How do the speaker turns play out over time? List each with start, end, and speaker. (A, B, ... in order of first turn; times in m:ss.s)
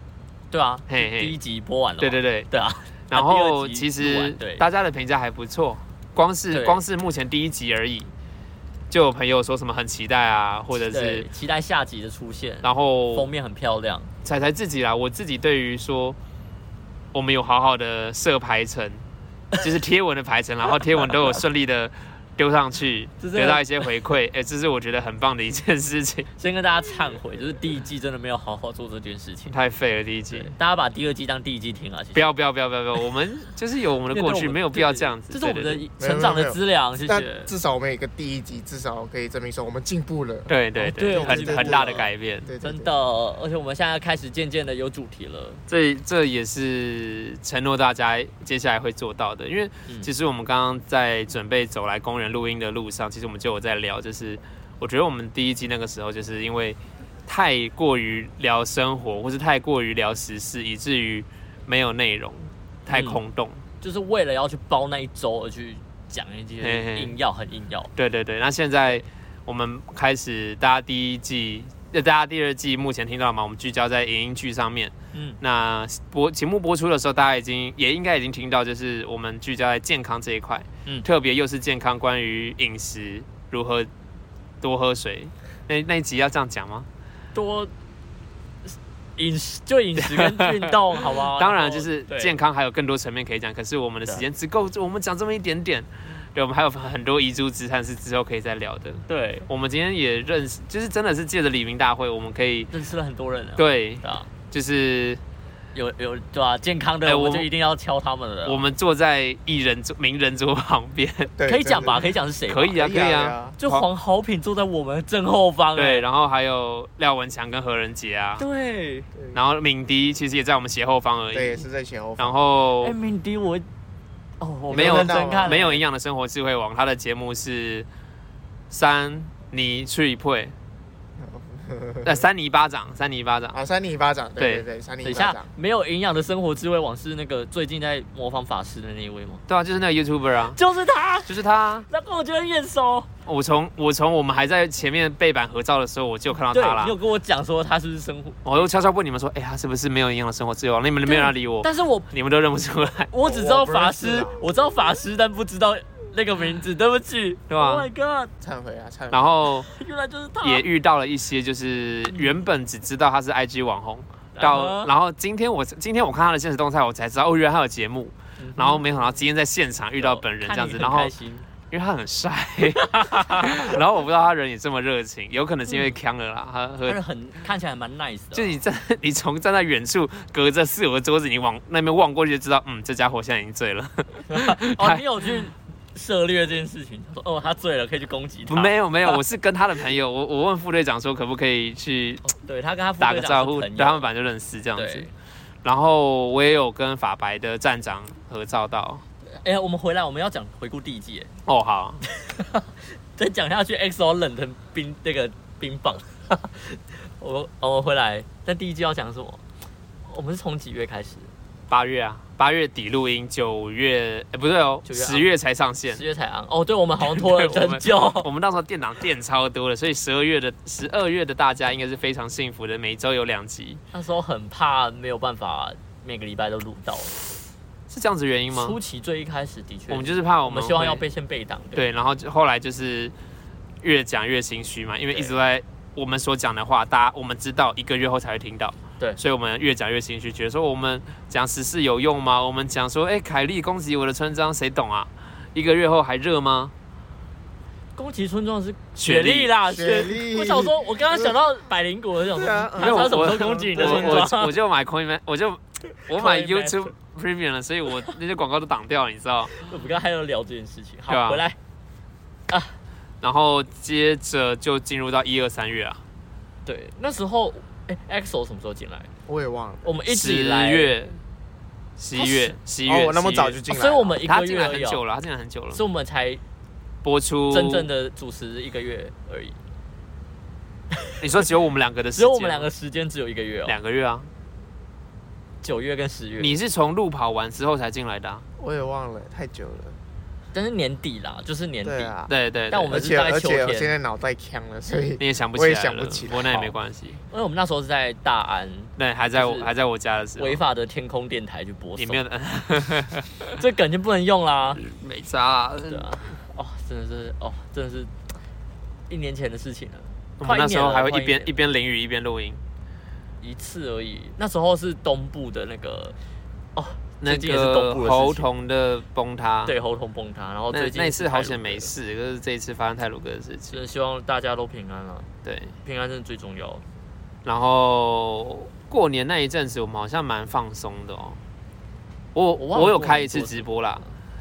0:00.5-0:04.6 A
0:00.9-0:01.4 B
0:02.0-0:02.5 B
0:03.1-0:08.1 B
0:06.5-0:06.8 A
0:08.9-0:11.3 B
0:10.7-0:14.1 A
0:12.6-0:13.3 B
0:14.2-0:16.2 B
0:17.1-0:19.0 B
0:19.6-0:26.3 B
0:23.2-0:23.9 A
0:26.4-0:29.5 A
0:29.5-0:30.5 B
0:30.3-0:32.3 A
0:32.2-0:35.9 B
0:34.1-0:37.5 A
0:36.0-0:40.5 C
0:40.5-0:42.5 B
0:40.8-0:42.1 A
0:41.1-0:42.9 C
0:42.6-0:45.6 A
0:45.7-1:03.6 B
1:02.9-1:03.2 A
1:03.8-1:07.9 A
1:06.6-1:07.2 B
1:08.0-1:23.9 B
1:24.6-1:26.9 B
1:27.3-1:27.7 A
1:28.7-1:32.4 A
1:30.0-1:42.7 B
1:39.1-1:39.5 A
1:42.7-1:44.3 A
1:43.6-1:45.2 B
1:45.8-1:48.6 A
1:47.0-1:47.5 B
1:48.4-1:51.3 B
1:51.4-1:52.1 C
1:51.5-1:52.9 A
1:52.5-1:53.9 B
1:52.8-1:53.6 C
1:53.6-1:56.0 A
1:55.8-1:58.4 B
1:58.4-1:59.1 A
1:59.3-2:01.6 B
2:01.3-2:02.4 C
2:02.2-2:03.0 B
2:02.8-2:03.7 A
2:04.4-2:05.8 A
2:04.7-2:05.8 C
2:04.7-2:07.9 B
2:08.7-2:10.5 B
2:11.2-2:12.2 C
2:12.0-2:13.6 B
2:13.5-2:15.5 C
2:14.4-2:14.7 B
2:15.0-2:19.4 A
2:19.5-2:20.6 B
2:20.6-2:21.4 A
2:21.3-2:21.9 B
2:21.9-2:23.1 A
2:23.3-2:27.0 B
2:26.5-2:28.6 A
2:28.4-2:33.1 B
2:31.1-2:32.1 A
2:33.1-2:38.3 A
2:33.2-2:34.4 C
2:37.5-2:37.9 B
2:38.4-2:39.4 C
2:39.1-2:39.7 B
2:39.6-2:40.7 A
2:40.4-2:51.1 B
2:44.4-2:44.9 A
2:48.4-2:49.1 A
2:50.0-2:51.5 A
2:51.7-2:57.0 B
2:52.7-2:53.8 A
2:55.7-2:56.0 A
2:56.8-2:58.6 A
2:58.3-3:05.0 B
3:04.3-3:09.2 A
3:08.5-3:12.3 B
3:12.2-3:14.0 A
3:13.0-3:15.1 B
3:14.8-3:15.1 A
3:15.6-3:19.0 B
3:19.3-3:21.3 A
3:21.5-3:22.0 B
3:22.0-3:29.4 A
3:30.1-3:31.3 A
3:31.7-3:36.0 B
3:34.8-3:35.3 A
3:35.9-3:38.3 A
3:37.0-3:43.8 B
3:43.9-3:47.2 A
3:47.9-3:48.8 B
3:48.5-3:51.9 A
3:49.9-3:51.0 B
3:51.7-3:53.1 B
3:53.8-4:06.7 B
4:08.0-4:14.6 A
4:09.0-4:09.5 B
4:09.7-4:11.3 C
4:12.3-4:14.3 C
4:12.8-4:19.6 B
4:16.1-4:16.9 A
4:19.5-4:21.6 A
4:21.1-4:21.4 B
4:22.5-4:22.8 A
4:23.2-4:26.0 B
4:26.6-4:29.1 A
4:29.3-4:29.9 C
4:29.8-4:31.0 A
4:30.1-4:31.2 B
4:32.0-4:33.6 B
4:32.2-4:32.6 A
4:32.8-4:34.2 C
4:33.7-4:35.0 A
4:34.2-4:35.8 B
4:35.7-4:36.4 A
4:37.0-4:37.9 B
4:37.5-4:39.6 A
4:41.1-4:41.4 A
4:41.2-4:42.7 B
4:42.2-4:43.8 A
4:43.7-4:44.3 B
4:45.6-4:46.6 A
4:46.4-4:48.4 B
4:48.6-4:50.0 C
4:50.5-4:52.1 A
4:51.8-4:52.3 C
4:52.3-4:53.0 B
4:52.7-4:53.9 A
4:52.9-4:56.8 C
4:55.2-4:57.2 B
4:57.3-4:59.7 A
4:59.0-5:00.6 B
5:00.4-5:02.2 A
5:02.0-5:03.5 B
5:03.6-5:04.8 A
5:04.8-5:06.2 B
5:05.9-5:08.2 A
5:09.1-5:11.5 A
5:10.4-5:12.6 B
5:13.4-5:16.2 A
5:16.8-5:18.5 A
5:17.2-5:19.8 B
5:19.7-5:21.9 A
5:20.7-5:23.8 B
5:23.7-5:25.3 A
5:25.4-5:25.7 B
5:25.8-5:26.8 A
5:27.4-5:31.4 B
5:32.4-5:34.0 B
5:32.6-5:33.7 A